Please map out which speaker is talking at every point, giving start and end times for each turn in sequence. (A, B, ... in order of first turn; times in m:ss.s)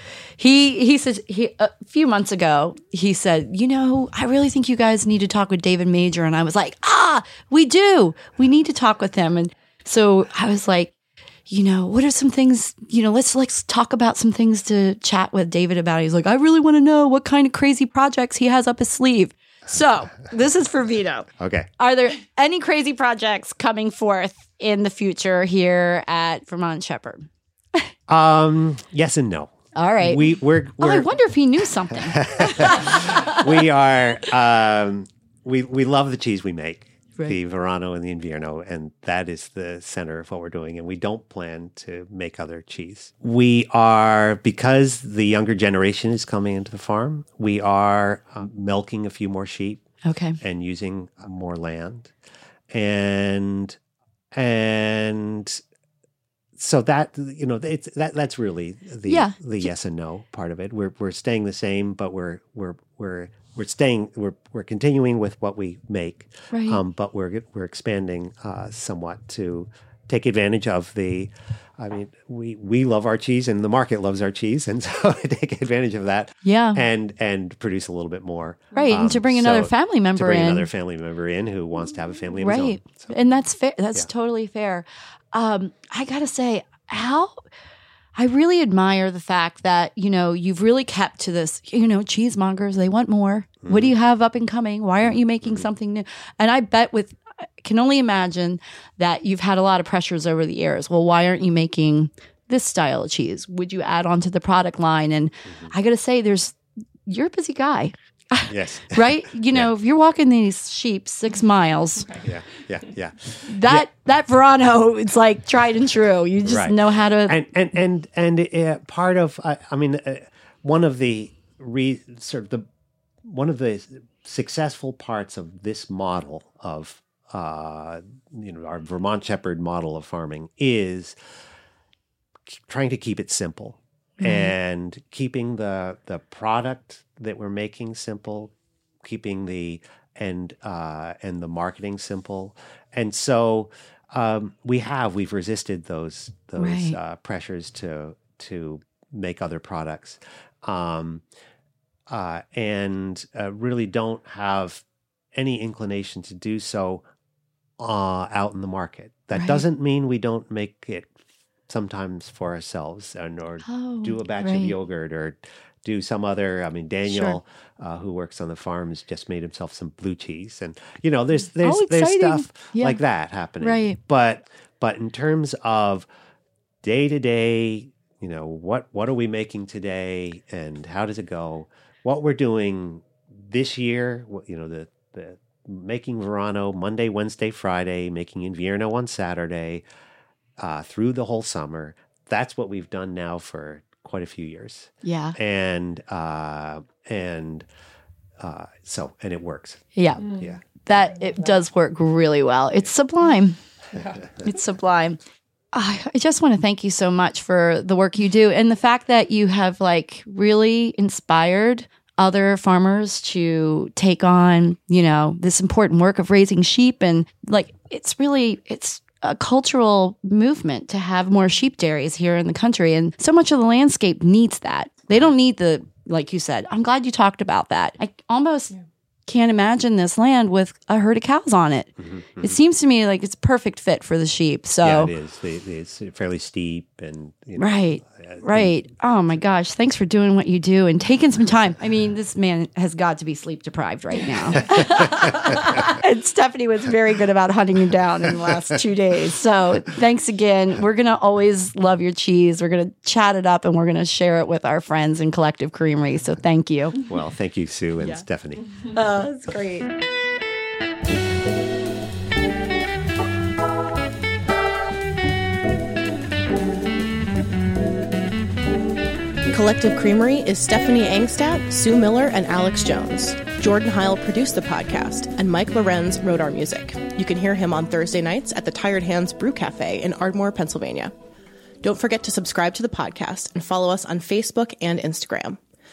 0:00.4-0:10.9 A
0:11.5-0:27.9 A
0:21.4-0:21.7 B
0:28.1-0:31.1 B
0:29.7-0:33.4 A
0:31.9-0:49.8 B
0:50.0-0:50.4 A
0:50.4-0:52.1 B
0:52.7-0:53.8 B
0:54.3-0:55.6 B
0:56.6-1:23.1 B
0:59.0-0:59.7 A
1:06.5-1:06.8 A
1:16.4-1:16.8 A
1:18.8-1:20.7 A
1:22.4-1:27.4 A
1:28.1-1:52.1 A
1:33.6-1:33.9 B
1:35.0-1:35.7 B
1:48.5-1:49.7 B
1:52.2-1:53.9 B
1:53.4-1:57.4 A
1:56.4-2:02.6 B
2:03.2-2:11.2 B
2:12.5-2:31.2 B
2:14.2-2:14.5 A
2:26.6-2:27.0 A
2:32.1-2:37.0 B
2:37.8-2:41.2 B
2:39.3-2:39.6 A
2:41.7-2:56.1 B
2:43.6-2:44.7 A
2:47.1-2:47.4 A
2:51.6-2:53.0 A
2:53.6-2:54.0 A
2:56.8-3:09.8 B
3:10.6-3:17.7 B
3:15.0-3:15.4 A
3:18.4-3:20.6 B
3:20.0-3:23.6 A
3:24.4-3:25.2 A
3:25.7-3:48.8 A
3:49.3-3:55.1 A
3:52.0-3:52.6 B
3:54.8-3:58.7 B
3:57.6-4:17.0 A
4:04.8-4:05.2 B
4:17.0-4:18.6 B
4:18.9-4:19.9 A
4:29.5-4:41.1 C
4:41.8-4:45.6 C